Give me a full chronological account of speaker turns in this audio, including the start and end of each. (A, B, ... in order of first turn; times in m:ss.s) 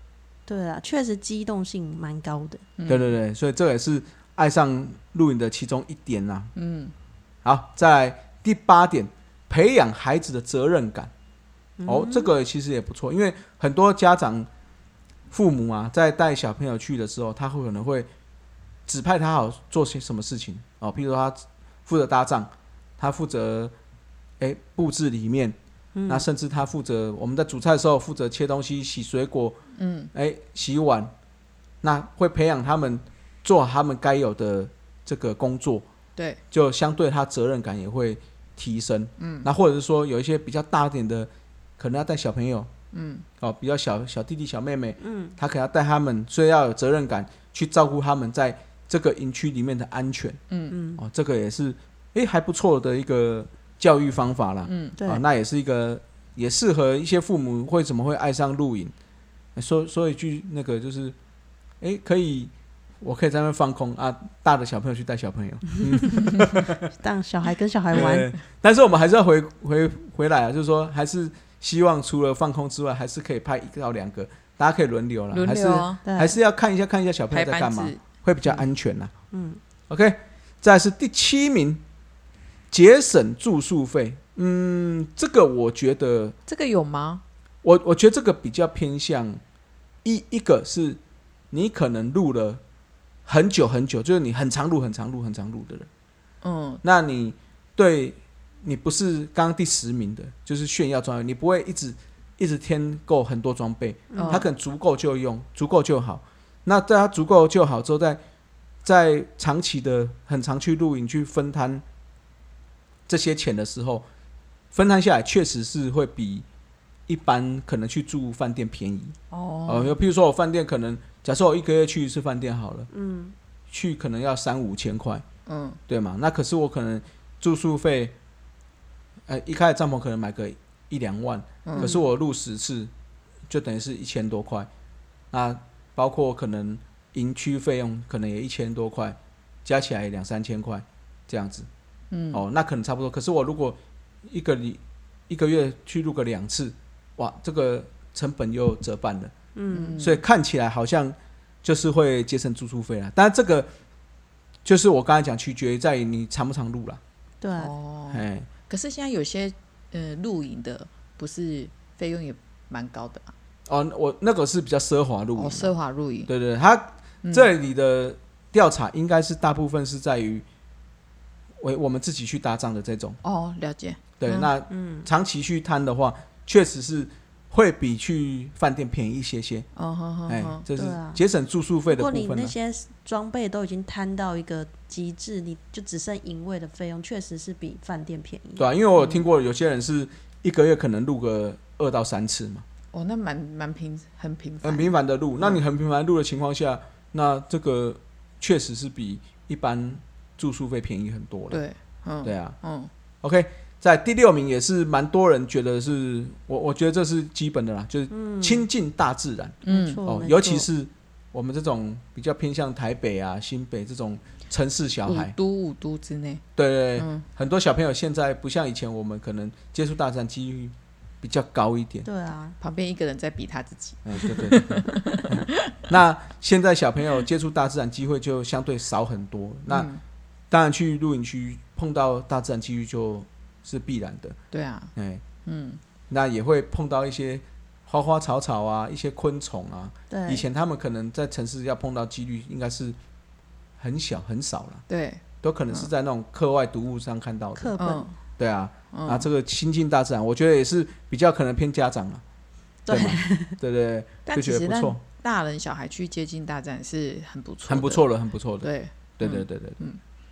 0:00.5-0:02.6 A
0:02.8-0:03.1 B
0:02.9-0:06.5 C
0:06.6-0:06.9 B
0:07.4-0:11.1 C
0:11.8-0:12.3 A
0:11.8-0:14.5 C
0:15.3-0:18.1 C
0:18.9-0:23.7 C
0:24.4-0:25.6 C
0:25.9-0:26.2 A
0:26.1-0:29.6 C
0:29.8-0:30.1 B
0:30.1-0:31.1 C
0:31.8-0:35.8 C
0:36.5-0:42.7 C
0:39.2-0:39.5 B
0:42.9-0:43.2 B
0:43.4-0:50.4 C
0:45.0-0:45.3 A
0:50.5-0:50.8 B
0:50.7-0:51.0 A
0:51.0-0:58.9 C
0:54.6-0:55.0 B
0:55.0-0:55.2 A
0:59.6-1:01.1 C
1:01.8-1:06.9 C
1:06.9-1:08.3 A
1:07.9-1:19.1 C
1:15.3-1:16.0 B
1:16.0-1:16.4 A
1:17.3-1:18.6 B
1:19.3-1:19.6 A
1:19.9-1:21.8 C
1:22.7-1:26.4 C
1:26.5-1:27.2 B
1:27.6-1:29.4 C
1:30.0-1:31.0 C
1:31.5-1:32.6 C
1:33.2-1:35.9 C
1:36.4-1:36.8 B
1:36.8-1:48.2 C
1:44.1-1:44.4 A
1:44.2-1:44.5 B
1:48.8-1:51.8 C
1:53.1-1:54.0 C
1:54.7-1:56.4 C
1:57.1-1:59.1 C
1:59.3-2:00.0 B
1:59.7-2:02.9 C
2:02.9-2:03.3 A
2:03.7-2:05.2 C
2:05.5-2:05.8 B
2:05.9-2:08.1 C
2:09.3-2:12.9 C
2:11.6-2:11.9 B
2:11.8-2:12.0 A
2:13.5-2:14.7 C
2:15.3-2:21.7 C
2:22.1-2:22.4 B
2:22.3-2:29.3 C
2:29.6-2:30.0 A
2:29.7-2:30.2 B
2:30.0-2:33.7 C
2:34.6-2:37.0 C
2:37.4-2:37.7 A
2:37.6-2:43.3 B
2:38.1-2:38.5 C
2:43.7-2:45.7 C
2:45.4-2:46.3 B
2:46.3-2:50.4 C
2:51.6-2:53.2 C
2:53.2-2:54.4 B
2:54.2-2:59.6 C
2:54.7-2:55.1 A
2:59.8-3:00.6 B
3:00.3-3:02.5 C
3:00.7-3:01.2 A
3:01.9-3:08.7 A
3:08.6-3:12.6 C
3:12.9-3:15.6 B
3:14.6-3:21.6 C
3:21.5-3:22.9 B
3:22.2-3:22.6 C
3:23.2-3:35.3 C
3:28.1-3:28.7 A
3:29.6-3:30.0 B
3:29.6-3:30.7 A
3:35.1-3:36.4 B
3:36.6-3:42.1 C
3:37.0-3:37.2 B
3:42.0-3:42.6 A
3:42.6-3:45.7 B
3:44.0-3:49.9 C
3:49.7-3:50.0 B
3:50.5-3:54.4 C
3:54.5-3:54.9 B
3:54.9-3:55.2 C
3:55.4-3:55.8 B
3:56.1-4:03.0 C
4:00.1-4:00.4 A
4:03.8-4:04.8 C
4:04.9-4:05.9 B
4:05.4-4:07.7 C
4:07.5-4:08.1 A
4:07.8-4:08.1 B
4:08.4-4:12.2 C
4:08.9-4:09.2 B
4:12.8-4:13.6 A
4:12.9-4:15.0 C
4:14.2-4:18.0 B
4:17.7-4:18.7 C
4:18.6-4:20.0 B
4:19.2-4:19.8 C